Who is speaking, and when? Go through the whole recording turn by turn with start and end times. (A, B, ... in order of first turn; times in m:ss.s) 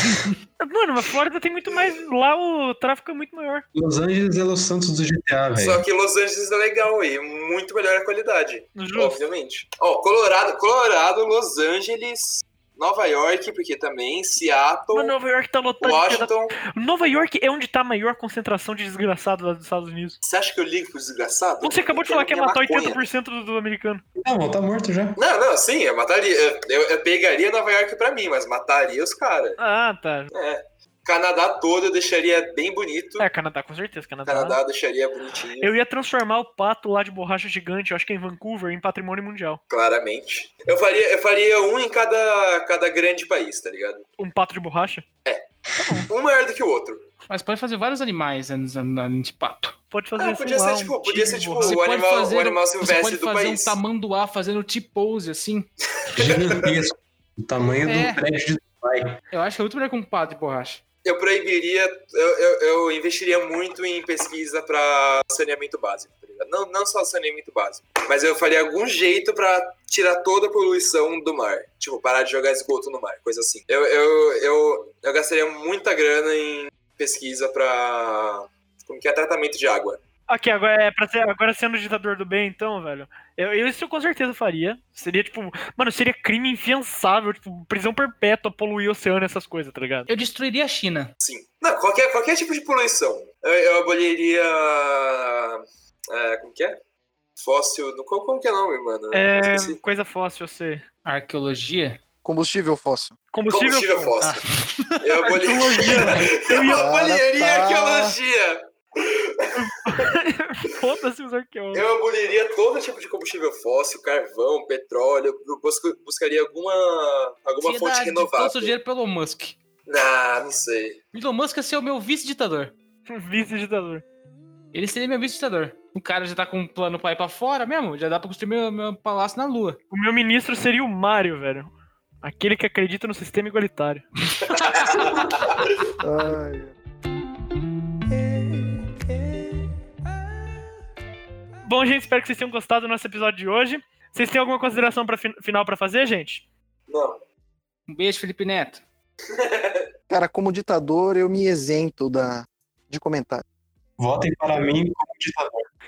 0:00.6-0:03.7 A
0:03.7-0:05.8 B
0:05.6-0:15.1 C
0:08.7-0:09.2 A
0:14.9-0:20.2 A
0:15.8-0:17.3 C
0:20.2-0:23.0 C
0:21.6-0:24.0 A
0:24.2-0:25.2 B
0:25.2-0:29.6 C
0:29.6-0:30.3 A
0:30.3-0:33.3 C
0:33.2-0:34.6 A
0:34.2-0:35.7 C
0:35.6-0:39.6 A
0:39.7-0:44.0 C
0:44.2-0:45.0 A
0:45.2-0:47.0 C
0:45.8-0:46.1 A
0:47.3-0:49.7 D
0:49.9-0:51.8 A
0:50.2-0:53.8 C
0:51.6-0:55.7 D
0:56.0-0:56.7 C
0:56.1-0:59.2 B
0:57.8-0:58.2 D
0:59.3-1:00.8 D
1:01.0-1:20.0 C
1:20.3-1:30.1 A
1:30.1-1:31.1 D
1:31.2-1:36.8 C
1:37.4-1:39.8 C
1:39.1-1:40.8 A
1:41.0-1:42.0 D
1:42.2-1:43.2 E
1:43.3-1:44.2 A
1:43.5-1:44.4 C
1:44.2-1:45.0 D
1:45.0-1:50.1 C
1:45.2-1:46.9 A
1:46.7-1:48.1 E
1:49.6-1:51.8 A
1:51.7-1:58.8 C
1:57.6-1:59.6 D
1:59.9-2:01.0 C
2:01.1-2:02.7 D
2:03.1-2:04.0 A
2:04.7-2:09.8 D
2:09.9-2:11.7 A
2:12.2-2:15.3 A
2:14.6-2:15.1 D
2:14.7-2:15.6 C
2:16.0-2:16.7 E
2:21.6-2:26.4 A
2:26.9-2:27.2 C
2:27.9-2:28.8 D
2:29.3-2:29.9 C
2:30.1-2:33.4 E
2:34.0-2:35.6 B